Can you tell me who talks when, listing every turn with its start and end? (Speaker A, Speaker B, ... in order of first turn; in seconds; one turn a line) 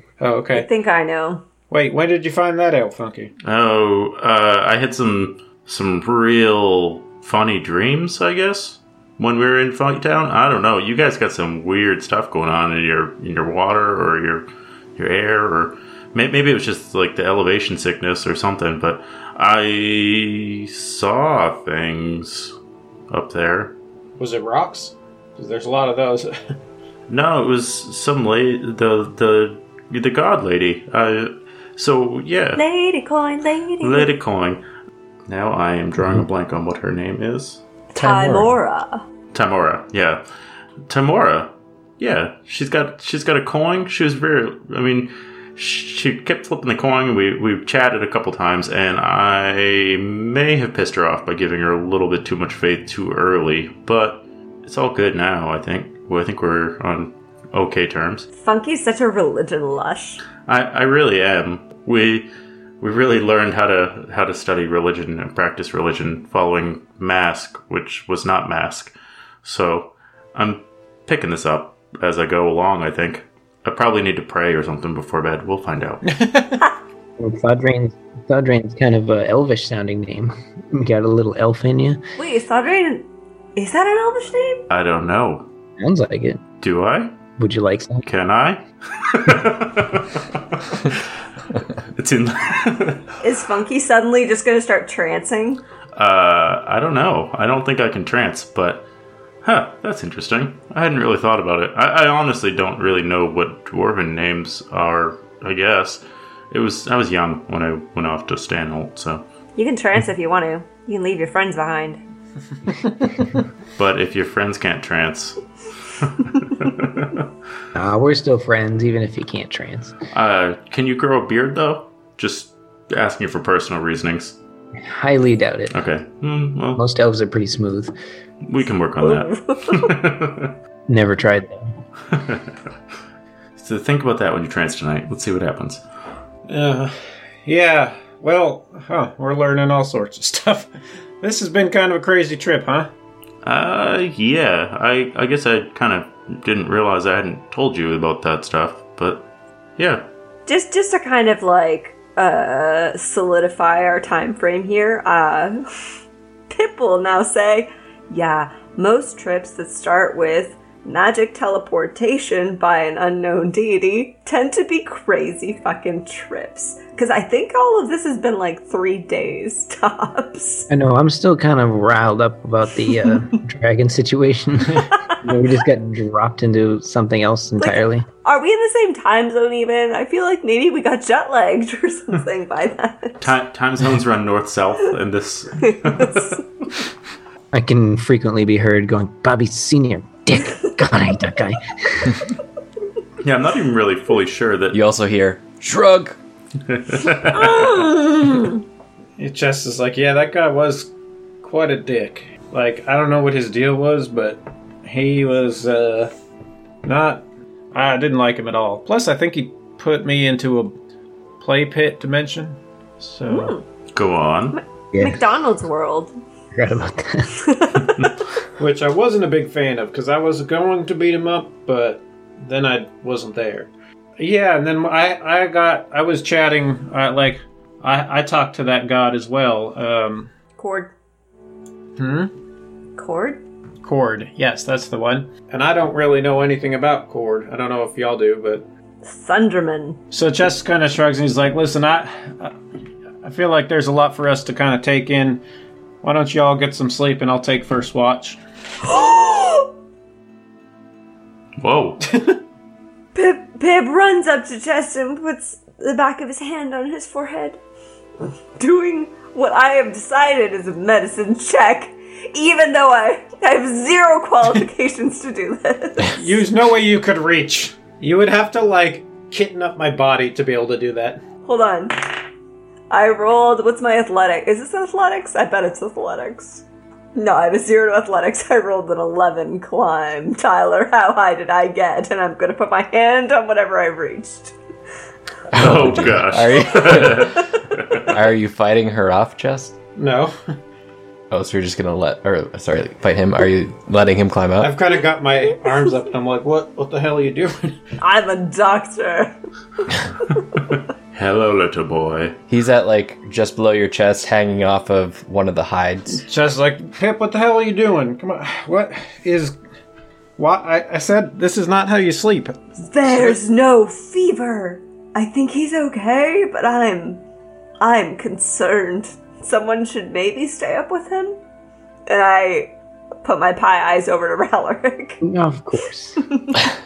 Speaker A: 0.2-0.7
Speaker B: 0.5-1.4
Speaker A: 1.7-3.3
Speaker C: 3.4-22.5
Speaker C: 23.1-23.8
Speaker A: 24.2-26.3
Speaker C: 27.1-32.6
Speaker B: 32.5-34.1
Speaker C: 33.8-34.6
Speaker C: 35.3-37.6
Speaker B: 37.9-39.0
Speaker D: 38.0-38.5
Speaker C: 39.3-40.2
Speaker C: 40.9-58.3
Speaker B: 58.4-60.2
Speaker C: 60.5-62.3
Speaker C: 62.8-76.0
Speaker A: 76.0-76.6
Speaker E: 77.2-82.0
Speaker B: 82.2-84.6
Speaker C: 84.7-85.5
Speaker E: 85.8-86.4
Speaker C: 86.6-87.2
Speaker E: 87.4-88.0
Speaker C: 88.0-91.1
Speaker C: 91.9-93.1
Speaker B: 93.2-95.6
Speaker C: 95.9-98.8
Speaker C: 99.4-109.2
Speaker B: 109.5-112.0
Speaker C: 113.8-115.4
Speaker C: 116.0-117.3
Speaker E: 117.7-119.9
Speaker C: 120.1-124.4
Speaker E: 124.8-125.7
Speaker C: 125.7-126.8
Speaker E: 126.8-127.9
Speaker C: 128.4-130.6
Speaker B: 129.0-129.9
Speaker E: 130.9-131.7
Speaker C: 132.1-132.7
Speaker C: 133.6-135.8
Speaker A: 136.5-140.7
Speaker A: 141.2-142.9
Speaker C: 143.4-150.1
Speaker B: 150.5-155.7
Speaker B: 156.5-170.7
Speaker E: 170.7-178.1
Speaker B: 174.9-175.2
Speaker B: 177.6-183.2
Speaker C: 183.2-186.4
Speaker B: 185.7-186.4
Speaker E: 187.5-192.3
Speaker C: 193.2-194.8
Speaker D: 194.7-196.2
Speaker C: 196.6-197.8
Speaker B: 197.3-198.6
Speaker A: 199.2-200.9
Speaker A: 201.4-206.1
Speaker A: 206.8-210.8
Speaker A: 211.4-213.6
Speaker B: 213.3-213.6
Speaker C: 213.9-214.6
Speaker B: 214.5-216.1
Speaker E: 214.9-215.3
Speaker E: 216.5-217.4
Speaker B: 217.4-218.1
Speaker A: 218.6-230.3
Speaker B: 230.6-230.9
Speaker A: 232.0-232.3
Speaker B: 233.0-233.4
Speaker A: 233.8-238.6
Speaker B: 239.0-240.0
Speaker A: 240.1-242.6
Speaker A: 243.2-245.4
Speaker A: 246.0-248.4
Speaker B: 248.8-249.7
Speaker C: 251.6-252.1
Speaker A: 252.1-252.3
Speaker B: 253.1-257.6
Speaker B: 258.6-266.4
Speaker A: 266.1-271.2
Speaker B: 271.4-272.1
Speaker B: 272.9-284.5
Speaker D: 285.5-289.8
Speaker C: 285.5-288.1
Speaker A: 289.9-290.6
Speaker D: 291.3-294.7
Speaker A: 294.6-297.8
Speaker B: 298.0-299.3
Speaker C: 301.1-302.4
Speaker D: 302.5-306.2
Speaker A: 306.2-309.6
Speaker A: 310.4-313.4
Speaker B: 312.8-317.2
Speaker B: 317.8-321.4
Speaker B: 322.1-325.2
Speaker E: 325.2-326.2
Speaker B: 326.2-326.6